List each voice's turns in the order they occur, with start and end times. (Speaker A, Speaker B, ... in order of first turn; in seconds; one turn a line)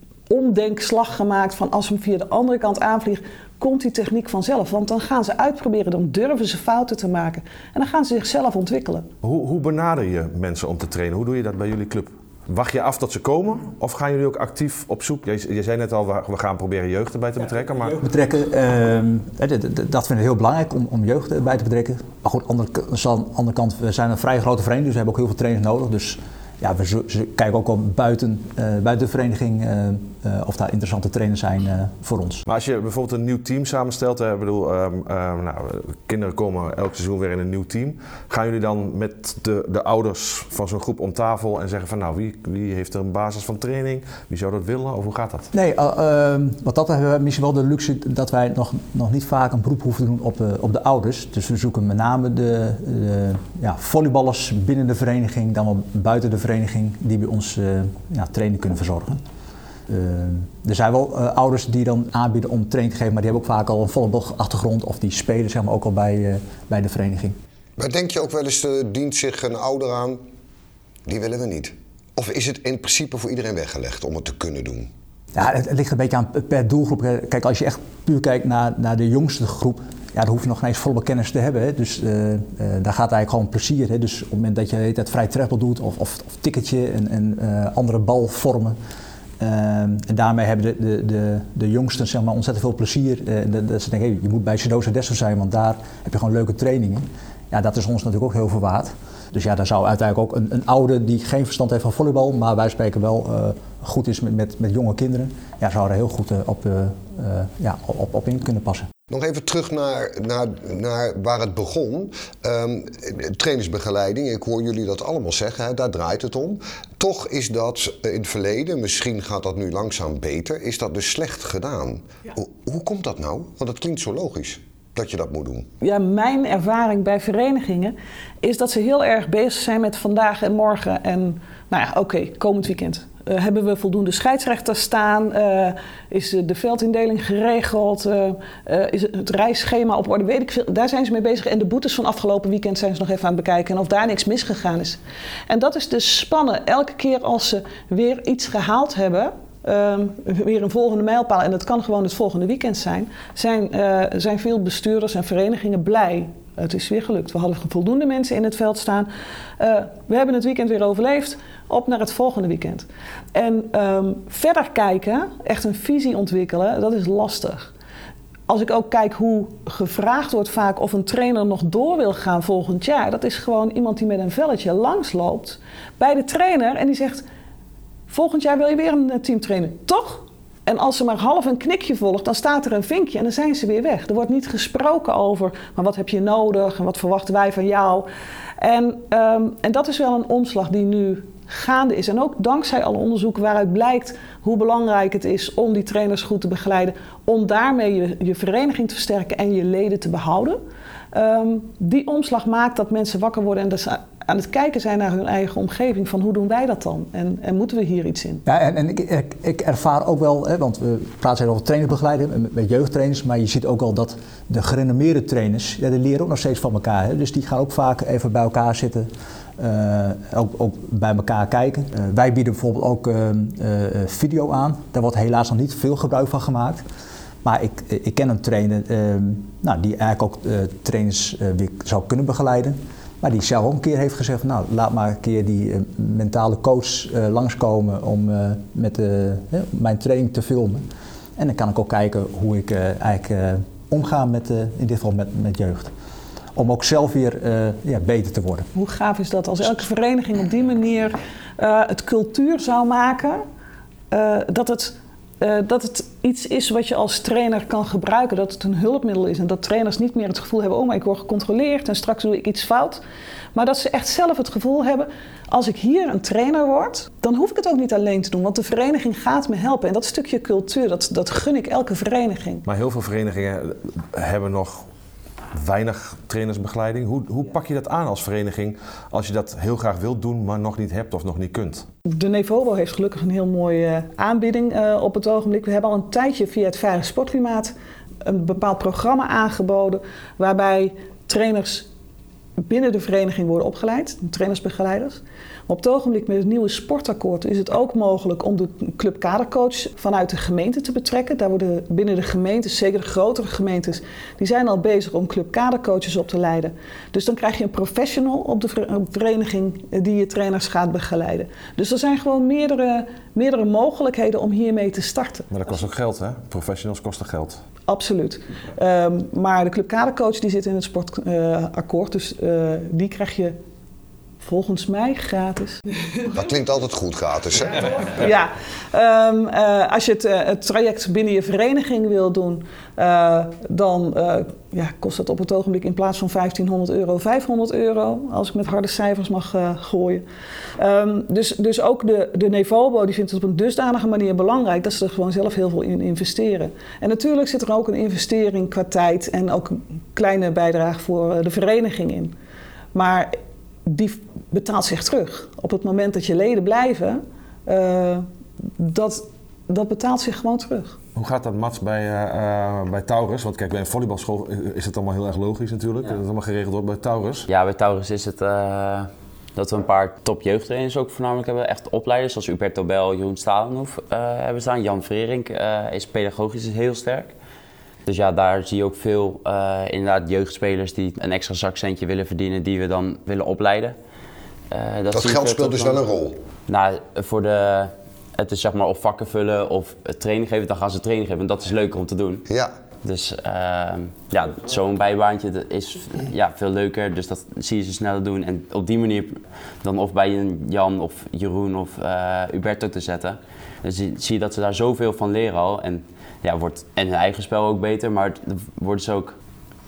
Speaker A: 0.3-9.1
Speaker B: 9.2-18.0
Speaker C: 17.9-32.4
Speaker B: 32.5-45.5
Speaker C: 45.5-59.2
Speaker C: 59.9-67.4
Speaker D: 67.8-70.2
Speaker D: 71.1-74.9
Speaker C: 75.3-88.8
Speaker C: 89.4-108.9
Speaker D: 109.1-125.7
Speaker A: 125.8-167.7
Speaker A: 168.5-177.2
Speaker A: 178.1-188.1
Speaker A: 188.6-200.6
Speaker A: 201.1-208.4
Speaker C: 208.5-226.8
Speaker C: 227.4-240.8
Speaker C: 241.4-245.9
Speaker C: 246.6-248.7
Speaker A: 248.7-253.4
Speaker A: 254.1-263.0
Speaker A: 263.5-272.7
Speaker B: 272.7-274.9
Speaker B: 275.5-281.9
Speaker A: 282.1-291.9
Speaker A: 292.6-315.5
Speaker B: 315.5-317.6
Speaker A: 317.9-323.6
Speaker A: 324.4-325.8
Speaker D: 326.3-328.1
Speaker A: 328.1-340.2
Speaker A: 340.8-352.3
Speaker A: 352.9-353.3
Speaker A: 353.9-358.3
Speaker A: 358.8-361.0
Speaker B: 361.1-367.5
Speaker E: 367.5-377.3
Speaker E: 378.1-384.0
Speaker E: 384.7-386.0
Speaker D: 385.1-386.4
Speaker E: 386.7-392.5
Speaker E: 393.0-409.4